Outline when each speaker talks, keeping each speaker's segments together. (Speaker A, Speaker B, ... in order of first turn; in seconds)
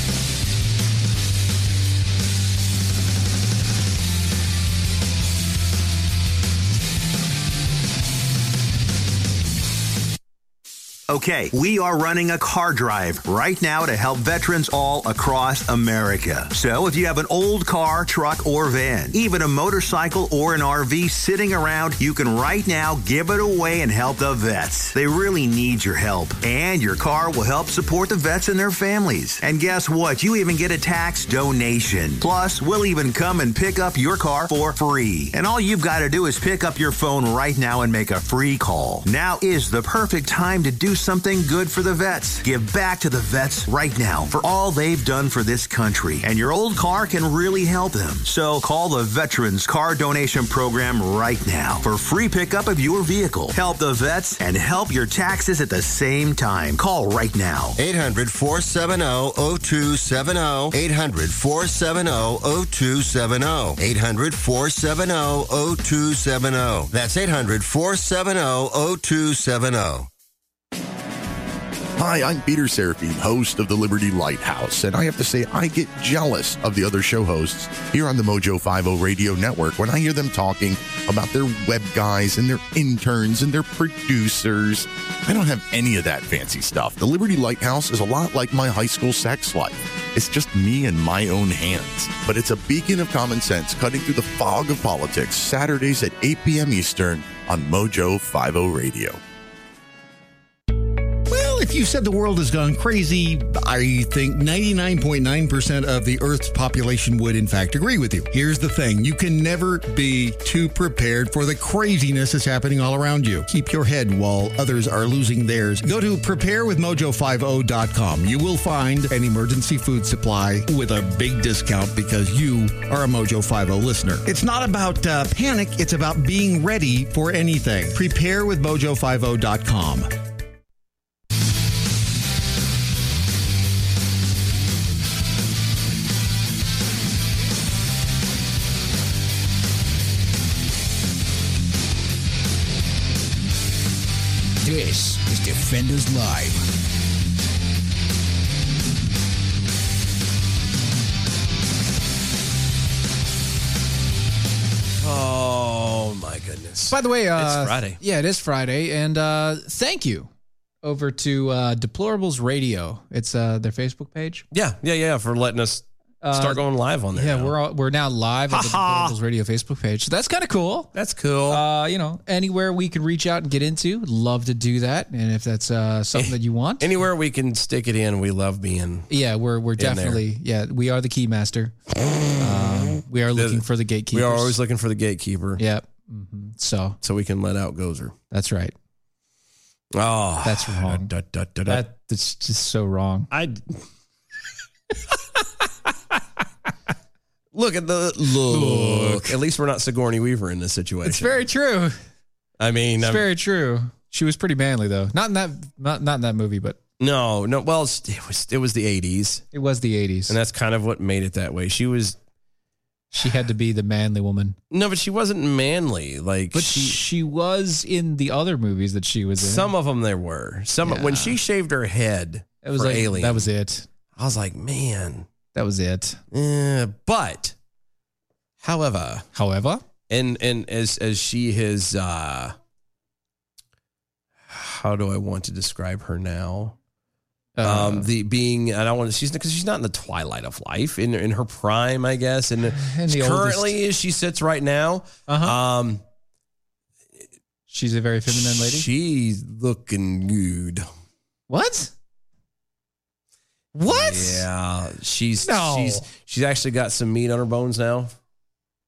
Speaker A: 11.1-57.8
Speaker B: 57.8-70.1
Speaker C: 72.0-99.2
Speaker D: 101.3-130.1
Speaker E: 144.6-146.7
Speaker F: 155.0-158.0, 164.5-167.5, 168.5-169.2, 170.9-171.6, 176.1-179.1, 179.8-180.2, 183.3-185.6, 187.0-188.1, 189.9-191.8, 193.3-193.8, 197.5-201.4, 202.6-203.3, 207.0-209.4, 210.3-212.2, 214.7-217.0, 219.4-223.5, 224.2-225.3, 226.3-227.5, 228.6-229.2, 230.1-232.5, 234.5-236.8, 237.6-246.0, 248.3-250.8, 253.8-258.1
Speaker G: 156.9-160.3, 160.8-164.4, 166.2-166.6, 167.1-170.9, 171.5-177.0, 179.1-181.7, 182.4-184.6, 185.6-187.0, 188.3-188.7, 190.4-191.1, 191.7-193.3, 198.5-199.4, 201.0-202.0, 203.0-206.8, 209.5-210.3, 213.1-214.6, 216.5-219.7, 220.8-221.4, 222.6-223.9, 225.5-226.2, 229.3-229.8, 237.6-238.1, 242.7-243.8, 245.3-245.6, 247.7-248.9, 251.5-251.9, 253.7-254.4, 255.4-256.1